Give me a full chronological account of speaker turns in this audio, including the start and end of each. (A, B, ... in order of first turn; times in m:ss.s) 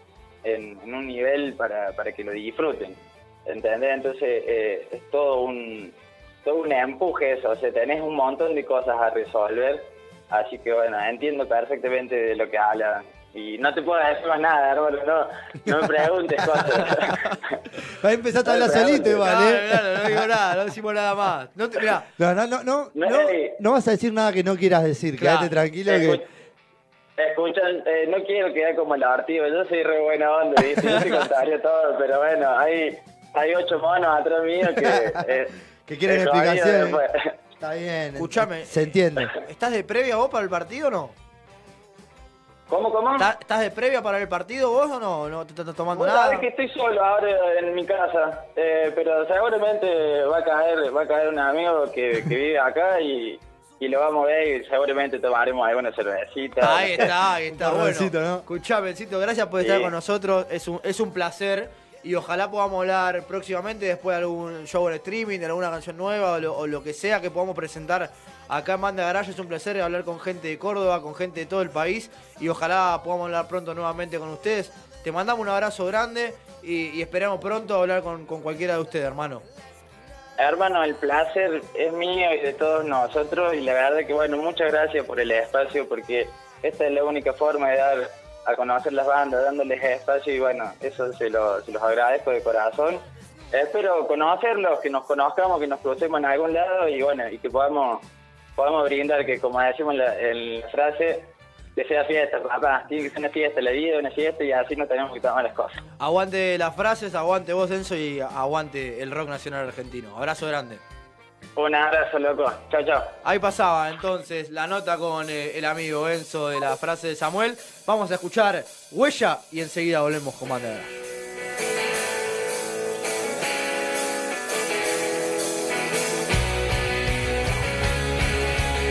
0:00.4-0:17.6 A
0:17.8-0:20.3 B
0:18.4-0:19.2 A
0:19.2-0:22.1 C
0:22.2-0:26.2 B
0:22.9-0:23.6 A
0:25.2-0:25.5 C
0:25.9-0:26.2 A
0:27.2-0:35.5 A
0:34.8-0:35.3 B
0:35.9-0:37.0 B
0:36.1-0:37.4 A
0:37.6-0:39.3 B
0:38.2-0:41.1 C
0:42.7-0:43.3 A
0:43.2-0:46.4 C
0:45.9-0:57.1 A
0:56.6-1:19.4 C
0:57.5-0:58.4 B
0:59.6-0:59.9 A
1:20.4-1:33.0 A
1:33.5-1:38.0 A
1:38.6-1:45.8 A
1:46.0-1:50.8 C
1:51.6-1:53.1 A
1:53.2-2:00.9 C